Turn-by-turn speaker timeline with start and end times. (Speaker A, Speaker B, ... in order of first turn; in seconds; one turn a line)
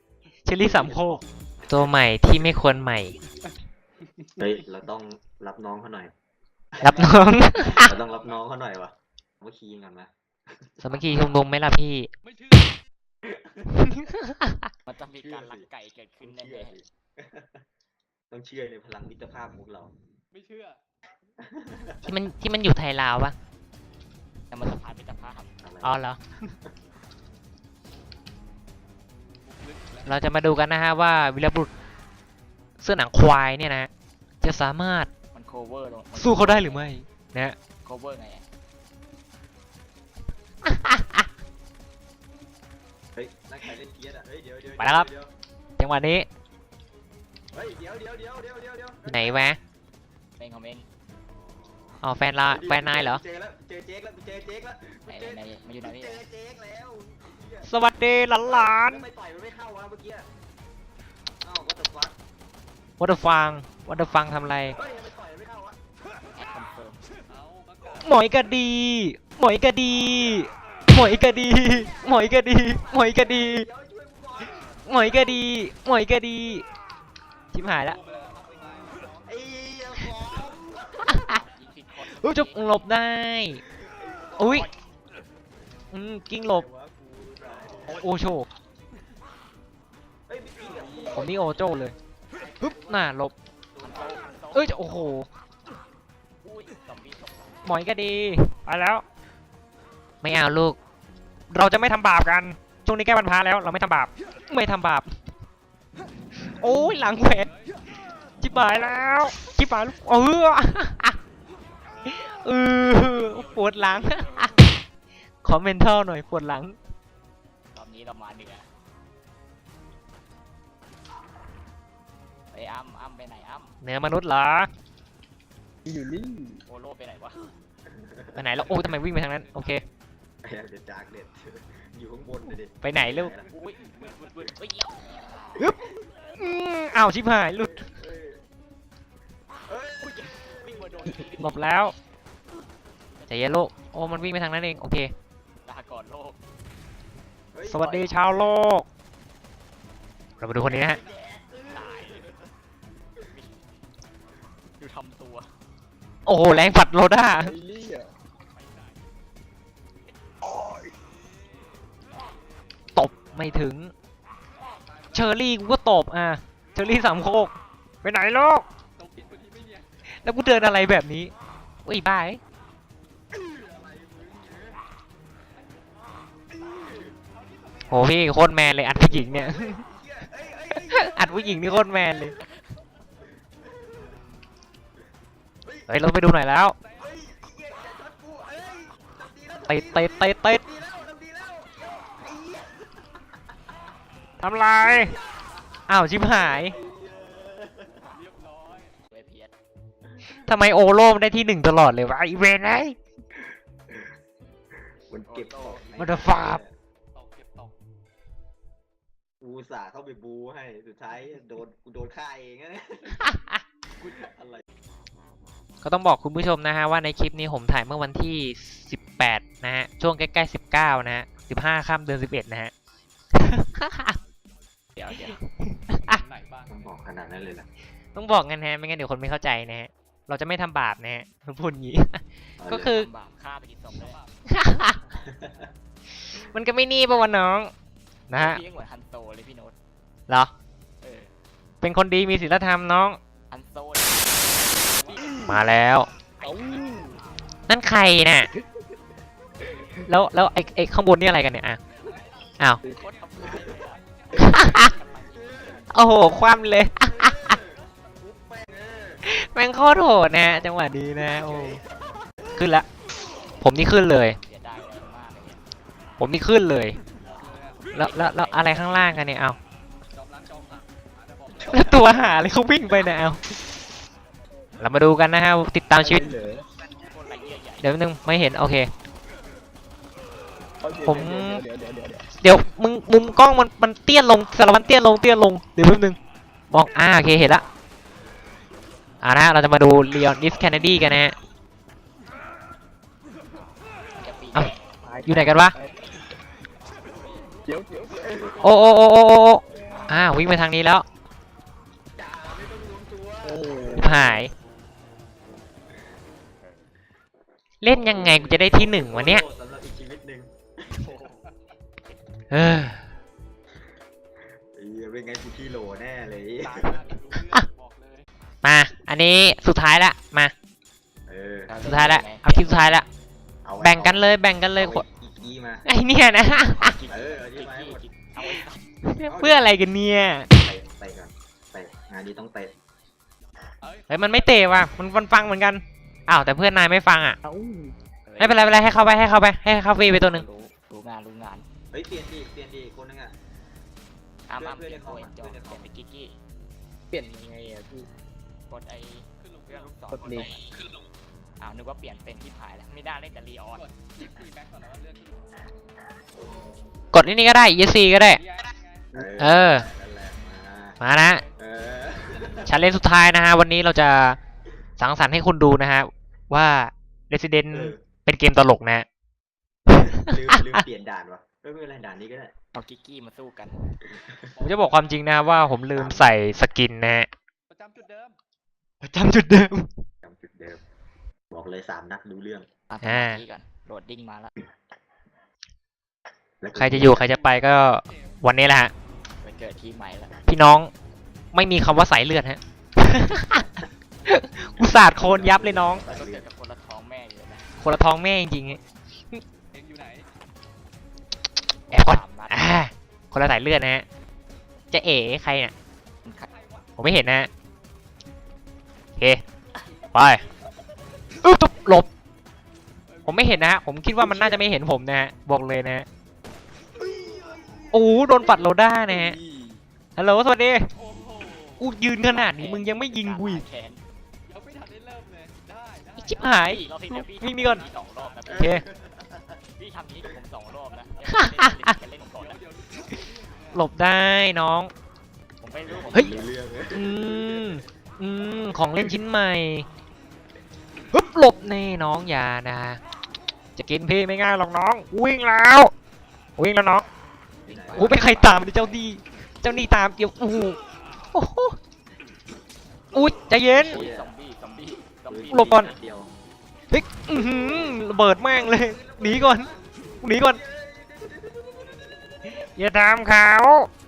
Speaker A: 0.5-3.1
Speaker B: 0.6-1.9
Speaker B: 4.4-6.1
Speaker B: 6.7-11.4
Speaker A: 6.8-8.0
Speaker C: 7.0-8.3
Speaker A: 10.8-12.1
Speaker C: 12.2-12.8
Speaker B: 13.2-14.0
Speaker A: 13.8-14.7
Speaker D: 14.8-16.8
Speaker B: 15.1-15.7
Speaker B: 16.2-17.6
Speaker B: 18.3-19.9
Speaker C: 20.3-20.8
Speaker B: 21.4-22.2
Speaker A: 22.1-23.3
Speaker D: 24.5-25.5
Speaker B: 25.6-26.8
Speaker A: 25.8-26.2
Speaker C: 29.4-30.2
Speaker A: 30.1-31.7
Speaker A: 32.8-33.9
Speaker A: 34.4-35.1
Speaker D: 35.3-36.9
Speaker A: 36.2-37.5
Speaker D: 37.8-38.5
Speaker A: 40.6-41.2
Speaker B: 43.1-45.3
Speaker A: 44.8-45.1
Speaker A: 45.8-46.2
Speaker B: 47.5-49.4
Speaker A: 49.0-49.6
Speaker D: 50.4-50.9
Speaker A: 52.0-53.2
Speaker B: 52.5-57.8
Speaker D: 55.1-56.2
Speaker A: 57.6-59.0
Speaker B: 58.4-60.3
Speaker B: 61.4-62.2
Speaker A: 63.0-64.8
Speaker B: 64.7-65.8
Speaker D: 66.3-67.0
Speaker C: 67.2-68.1
Speaker A: 68.0-73.7
Speaker B: 71.0-72.1
Speaker B: 72.8-75.4
Speaker A: 74.9-76.6
Speaker A: 77.5-78.0
Speaker C: 77.7-79.3
Speaker B: 79.2-81.4
Speaker A: 81.1-81.4
Speaker D: 81.1-82.7
Speaker A: 82.1-83.6
Speaker B: 83.7-84.7
Speaker A: 84.4-84.7
Speaker A: 85.9-86.7
Speaker B: 86.4-88.1
Speaker A: 87.9-88.5
Speaker B: 90.3-91.7
Speaker A: 91.1-91.9
Speaker B: 92.3-93.1
Speaker A: 92.6-93.3
Speaker B: 93.7-94.4
Speaker D: 93.8-94.9
Speaker A: 94.5-95.3
Speaker D: 96.4-97.7
Speaker A: 97.7-99.0
Speaker A: 100.2-100.8
Speaker A: 101.5-105.1
Speaker A: 106.4-107.5
Speaker C: 107.2-107.7
Speaker A: 108.4-111.2
Speaker A: 112.0-114.5
Speaker A: 115.4-116.8
Speaker D: 117.7-118.7
Speaker D: 122.5-123.8
Speaker A: 123.8-124.7
Speaker E: 125.8-126.6
Speaker D: 126.6-127.5
Speaker B: 127.8-128.9
Speaker A: 128.3-129.8
Speaker C: 129.3-129.8
Speaker B: 130.4-133.5
Speaker A: 132.8-133.3
Speaker D: 133.4-135.6
Speaker A: 136.4-137.8
Speaker B: 137.5-138.4
Speaker B: 139.7-141.2
Speaker D: 139.9-141.7
Speaker A: 141.4-141.9
Speaker D: 143.2-143.5
Speaker A: 143.3-145.1
Speaker D: 145.6-146.4
Speaker B: 147.5-148.4
Speaker A: 147.7-148.8
Speaker A: 150.4-151.0
Speaker B: 150.6-152.5
Speaker D: 151.7-152.3
Speaker D: 153.3-153.7
Speaker D: 154.8-155.5
Speaker A: 156.2-157.5
Speaker E: 157.4-158.1
Speaker C: 158.6-158.9
Speaker A: 162.9-163.9
Speaker C: 164.9-165.3
Speaker A: 165.1-167.5
Speaker A: 168.0-168.6
Speaker C: 168.9-169.9
Speaker A: 170.2-171.3
Speaker A: 171.8-172.4
Speaker B: 173.3-174.8
Speaker B: 176.5-177.2
Speaker C: 177.4-178.4
Speaker A: 177.9-179.8
Speaker B: 178.9-181.8
Speaker A: 180.8-182.3
Speaker B: 183.6-184.2
Speaker B: 185.6-185.9
Speaker A: 185.9-186.8
Speaker B: 186.9-193.2
Speaker A: 189.7-190.6
Speaker A: 194.4-195.1
Speaker B: 194.8-195.4
Speaker A: 195.9-196.7
Speaker B: 196.1-198.1
Speaker C: 198.1-199.0
Speaker D: 199.1-199.5
Speaker B: 200.1-200.4
Speaker A: 200.4-203.0
Speaker B: 205.1-206.7
Speaker D: 205.2-206.0
Speaker A: 206.0-206.6
Speaker C: 207.1-207.8
Speaker B: 209.4-213.4
Speaker A: 213.2-213.6
Speaker B: 214.0-214.6
Speaker A: 215.8-222.7
Speaker A: 223.3-224.2
Speaker D: 224.9-225.4
Speaker A: 225.3-226.2
Speaker C: 226.0-226.8
Speaker B: 226.7-227.7
Speaker A: 228.1-233.1
Speaker B: 232.6-232.9
Speaker D: 232.8-234.2
Speaker C: 234.0-235.7
Speaker A: 234.5-235.0
Speaker B: 235.2-235.7
Speaker A: 236.3-237.7
Speaker A: 238.3-238.6
Speaker D: 238.3-239.8
Speaker D: 241.0-241.3
Speaker A: 241.8-243.2
Speaker D: 243.5-245.3
Speaker C: 244.9-245.4
Speaker E: 245.2-245.6
Speaker A: 245.4-246.1
Speaker D: 246.4-246.9
Speaker E: 246.4-247.2
Speaker A: 247.7-248.5
Speaker A: 250.1-251.8
Speaker C: 251.9-252.5
Speaker D: 252.8-256.2
Speaker B: 253.4-254.7
Speaker C: 254.1-255.0
Speaker A: 254.3-254.9
Speaker B: 255.3-255.8
Speaker A: 255.9-257.6
Speaker B: 256.4-259.2
Speaker A: 259.2-261.8
Speaker B: 261.1-262.6
Speaker A: 262.6-262.9
Speaker A: 263.6-264.4
Speaker D: 264.4-265.6
Speaker A: 266.2-267.0
Speaker C: 267.3-268.0
Speaker A: 267.9-269.6
Speaker D: 267.9-268.9
Speaker C: 270.1-272.0
Speaker B: 271.5-272.4
Speaker A: 271.7-273.4
Speaker A: 274.8-276.3
Speaker E: 276.0-276.6
Speaker D: 277.0-278.0
Speaker A: 277.8-278.9
Speaker E: 280.8-282.3
Speaker A: 281.0-281.6
Speaker A: 282.4-286.2
Speaker A: 286.7-287.6
Speaker A: 289.2-291.3
Speaker D: 294.2-294.8
Speaker E: 295.0-296.0
Speaker A: 295.2-295.7
Speaker E: 297.6-298.6
Speaker B: 298.3-298.7
Speaker A: 298.6-301.0
Speaker B: 302.1-304.3
Speaker E: 303.4-304.4
Speaker A: 303.9-304.5
Speaker A: 307.8-309.4
Speaker B: 307.9-311.0
Speaker D: 310.9-311.5
Speaker A: 312.5-313.0
Speaker B: 314.7-317.0
Speaker C: 316.6-318.2
Speaker A: 318.6-320.5
Speaker B: 321.3-321.7
Speaker D: 321.7-322.9
Speaker A: 321.8-323.1
Speaker B: 323.6-325.8
Speaker A: 323.8-325.1
Speaker A: 325.9-327.0
Speaker D: 326.6-328.8
Speaker B: 327.1-328.0
Speaker A: 329.0-330.5
Speaker B: 329.3-332.7
Speaker C: 333.8-334.9
Speaker A: 334.1-337.4
Speaker E: 337.4-337.9
Speaker D: 338.2-339.0
Speaker A: 338.4-340.4
Speaker D: 339.9-341.7
Speaker B: 341.9-343.3
Speaker D: 344.5-346.3
Speaker B: 344.5-345.9
Speaker E: 347.1-348.1
Speaker D: 348.7-350.8
Speaker C: 349.4-350.4
Speaker E: 350.1-350.5
Speaker D: 351.6-353.8
Speaker C: 353.7-355.6
Speaker A: 357.1-358.4
Speaker C: 358.3-359.1
Speaker B: 359.1-361.0
Speaker A: 359.4-359.9
Speaker A: 361.0-361.4
Speaker B: 361.6-362.8
Speaker A: 362.6-364.4
Speaker A: 365.0-369.1
Speaker B: 367.7-368.0
Speaker A: 369.9-370.8
Speaker B: 369.9-372.5
Speaker D: 372.7-373.8
Speaker B: 374.1-374.5
Speaker C: 374.5-375.6
Speaker A: 374.6-377.3
Speaker B: 375.9-376.3
Speaker C: 377.7-378.4
Speaker A: 379.0-380.0
Speaker B: 380.2-380.8
Speaker B: 381.5-382.7
Speaker D: 382.9-384.5
Speaker A: 383.0-383.4
Speaker B: 386.6-387.3
Speaker A: 386.7-388.9
Speaker C: 387.1-388.4
Speaker D: 389.4-390.4
Speaker A: 390.5-390.9
Speaker A: 391.5-393.7
Speaker A: 394.3-396.0
Speaker B: 394.8-396.5
Speaker D: 396.0-397.7
Speaker A: 397.8-398.8
Speaker C: 399.7-400.3
Speaker A: 401.9-404.0
Speaker D: 401.9-402.8
Speaker A: 404.9-405.7
Speaker D: 406.2-406.5
Speaker C: 406.5-406.9
Speaker A: 407.0-407.5
Speaker A: 410.1-410.4
Speaker A: 411.4-412.1
Speaker C: 413.1-413.8
Speaker A: 413.2-416.1
Speaker B: 414.2-414.7
Speaker B: 417.0-419.8
Speaker A: 417.9-419.4
Speaker A: 420.2-420.9
Speaker C: 420.9-421.9
Speaker A: 421.8-423.6
Speaker D: 422.3-424.0
Speaker C: 424.5-426.4
Speaker A: 426.2-427.8
Speaker D: 426.5-428.8
Speaker C: 427.6-428.4
Speaker B: 428.4-429.6
Speaker A: 428.5-428.8
Speaker D: 429.8-432.6
Speaker A: 431.3-431.9
Speaker C: 432.3-433.9
Speaker A: 433.7-434.9
Speaker D: 435.6-436.5
Speaker B: 435.9-437.9
Speaker A: 436.9-439.9
Speaker B: 438.4-439.1
Speaker A: 441.1-443.0
Speaker A: 443.8-445.9
Speaker A: 446.6-447.1
Speaker B: 447.6-448.4
Speaker D: 447.7-449.0
Speaker A: 447.9-450.8
Speaker A: 451.3-451.8
Speaker A: 453.1-454.1
Speaker B: 453.7-454.3
Speaker D: 453.7-455.9
Speaker B: 455.3-456.3
Speaker A: 455.5-455.9
Speaker A: 456.9-459.7
Speaker B: 457.4-462.5
Speaker A: 460.2-460.6
Speaker A: 462.6-463.9